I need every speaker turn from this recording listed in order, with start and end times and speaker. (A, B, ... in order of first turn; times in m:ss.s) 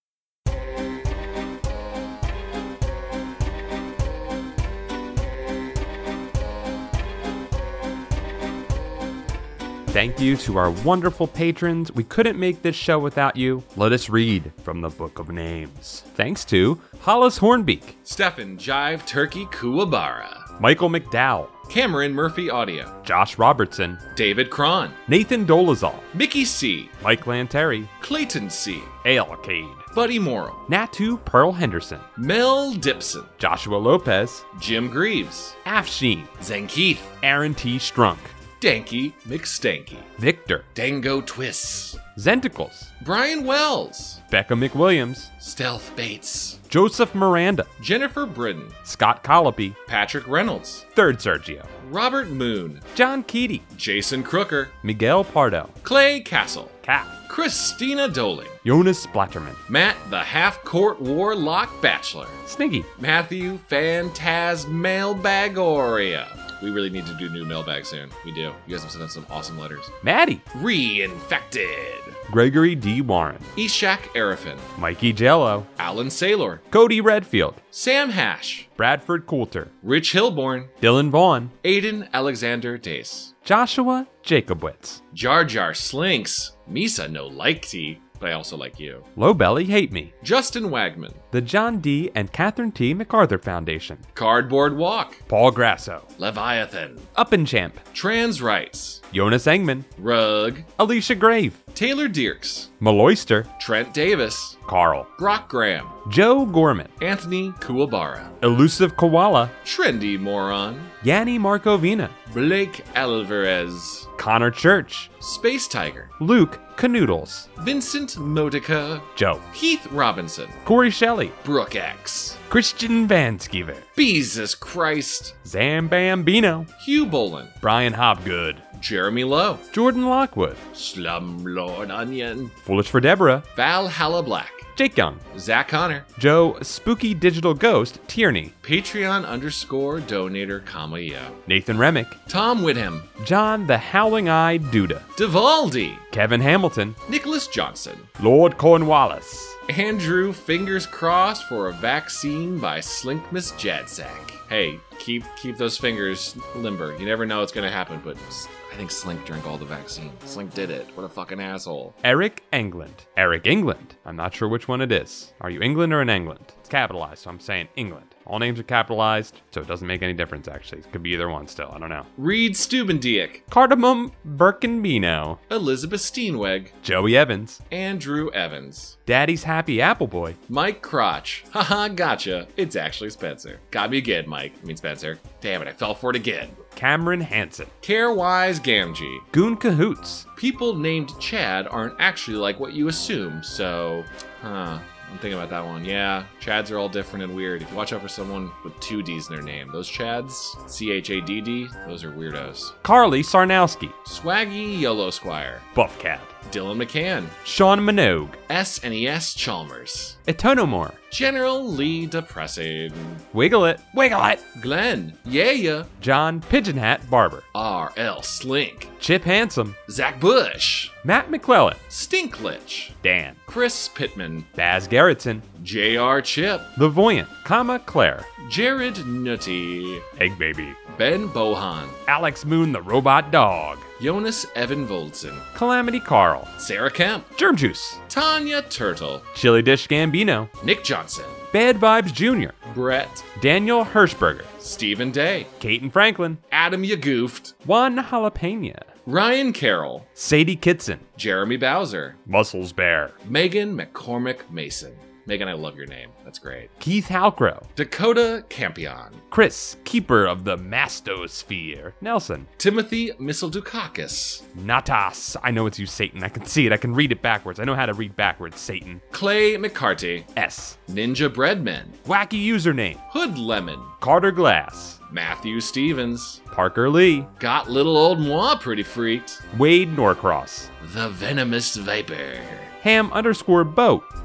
0:09.9-0:17.9 A
0:18.0-0:20.5 B
0:20.6-0:21.5 A
0:21.7-0:22.9 B
0:23.0-0:24.0 A
0:24.1-0:25.0 B
0:25.1-0:26.1 A
0:26.1-0:26.9 B
0:27.0-0:27.9 A
0:28.0-0:29.0 B
0:29.0-0:29.9 A
0:29.9-0:30.6 B
0:30.7-0:32.0 A
0:32.2-0:33.3 B
0:33.4-0:34.4 A
0:34.5-0:35.6 B
0:35.6-0:36.3 A
0:36.4-0:37.1 B
0:37.2-0:38.3 A
0:38.6-0:40.1 B
0:40.2-0:40.6 A
0:40.7-0:42.0 B
0:42.2-0:42.9 A
0:43.0-0:44.2 B
0:44.3-0:45.3 A
0:45.4-0:46.6 B
0:46.7-0:47.7 A
0:47.8-0:48.8 B
0:48.8-0:49.8 A
0:49.9-0:50.8 B
0:50.9-0:51.7 A
0:51.8-0:52.8 B
0:52.9-0:53.6 A
0:53.7-0:54.7 B
0:54.8-0:55.7 A
0:55.8-0:56.8 B
0:56.8-0:57.2 A
0:57.3-0:58.6 B
0:58.6-0:59.6 A
0:59.7-1:02.4 B
1:02.4-1:02.9 A
1:03.0-1:09.9 B
1:10.0-1:10.4 A
1:10.5-1:12.2 B
1:12.3-1:13.5 A
1:13.5-1:14.6 B
1:14.8-1:15.7 A
1:15.8-1:16.6 B
1:16.7-1:17.6 A
1:17.7-1:18.7 B
1:18.8-1:19.7 A
1:19.8-1:20.7 B
1:20.8-1:21.5 A
1:21.6-1:23.3 B
1:23.4-1:25.0 A
1:25.1-1:29.0 B
1:29.2-1:30.1 A
1:30.2-1:31.2 B
1:31.3-1:34.0 A
1:34.1-1:35.2 B
1:35.3-1:36.1 A
1:36.2-1:37.1 B
1:37.1-1:37.8 A
1:37.9-1:39.0 B
1:39.1-1:39.9 A
1:40.0-1:40.7 B
1:40.8-1:41.6 A
1:41.7-1:42.7 B
1:42.8-1:43.5 A
1:43.6-1:44.6 B
1:44.7-1:45.1 A
1:45.2-1:46.0 B
1:46.0-1:46.9 A
1:47.0-1:48.3 B
1:48.4-1:49.5 A
1:49.6-1:50.9 B
1:51.0-1:52.1 A
1:52.3-1:54.1 B
1:54.2-1:55.1 A
1:55.2-1:56.1 B
1:56.2-1:57.5 A
1:57.6-2:00.6 B
1:59.2-1:59.4 A
2:00.6-2:01.4 A
2:01.4-2:02.4 B
2:02.5-2:03.8 A
2:04.0-2:05.4 B
2:05.4-2:06.7 A
2:06.8-2:07.5 B
2:07.6-2:08.6 A
2:08.7-2:09.6 B
2:09.7-2:10.6 A
2:10.7-2:12.5 B
2:12.6-2:13.4 A
2:13.5-2:14.7 B
2:14.8-2:15.2 A
2:15.3-2:16.1 B
2:16.2-2:18.5 A
2:18.6-2:21.4 B
2:21.5-2:22.2 A
2:22.3-2:23.1 B
2:23.2-2:25.1 A
2:25.2-2:26.0 B
2:26.1-2:27.0 A
2:27.1-2:28.1 B
2:28.2-2:29.6 A
2:29.7-2:41.9 B
2:42.0-2:52.1 A
2:52.2-2:53.4 B
2:53.5-2:55.4 A
2:55.5-2:56.7 B
2:56.8-2:57.6 A
2:57.7-2:59.0 B
2:59.1-3:00.4 A
3:00.5-3:06.6 B
3:06.7-3:07.7 A
3:07.8-3:09.3 B
3:09.3-3:10.3 A
3:10.4-3:22.7 B
3:22.8-3:23.9 A
3:24.0-3:25.6 B
3:25.7-3:26.3 A
3:26.4-3:27.4 B
3:27.4-3:28.4 A
3:28.5-3:30.2 B
3:30.3-3:31.0 A
3:31.1-3:33.2 B
3:33.3-3:34.4 A
3:34.5-3:35.9 B
3:36.0-3:37.4 A
3:37.5-3:38.9 B
3:39.0-3:39.8 A
3:39.9-3:41.0 B
3:41.0-3:41.8 A
3:41.9-3:44.5 B
3:43.0-3:43.4 A
3:44.6-3:45.4 A
3:45.6-3:46.7 B
3:46.8-3:48.3 A
3:48.4-3:50.0 B
3:50.2-3:50.8 A
3:50.9-3:52.0 B
3:52.1-3:53.9 A
3:54.0-3:55.4 B
3:55.5-3:56.5 A
3:56.6-3:57.3 B
3:57.4-3:58.0 A
3:58.1-3:59.2 B
3:59.3-4:00.5 A
4:00.6-4:01.4 B
4:01.5-4:02.6 A
4:02.6-4:03.3 B
4:03.4-4:04.5 A
4:04.6-4:05.5 B
4:05.6-4:06.4 A
4:06.5-4:07.6 B
4:07.6-4:08.9 A
4:09.0-4:10.1 B
4:10.2-4:11.0 A
4:11.2-4:12.2 B
4:12.3-4:13.2 A
4:13.2-4:16.7 B
4:16.8-4:17.7 A
4:17.8-4:19.2 B
4:19.3-4:22.5 A
4:22.6-4:24.4 B
4:24.5-4:29.0 A
4:29.1-4:30.3 B
4:30.4-4:30.8 A
4:30.9-4:32.0 B
4:32.0-4:33.0 A
4:33.1-4:33.9 B
4:34.0-4:35.0 A
4:35.1-4:36.4 B
4:36.5-4:37.3 A
4:37.4-4:39.4 B
4:39.5-4:40.7 A
4:40.8-4:42.7 B
4:42.8-4:44.0 A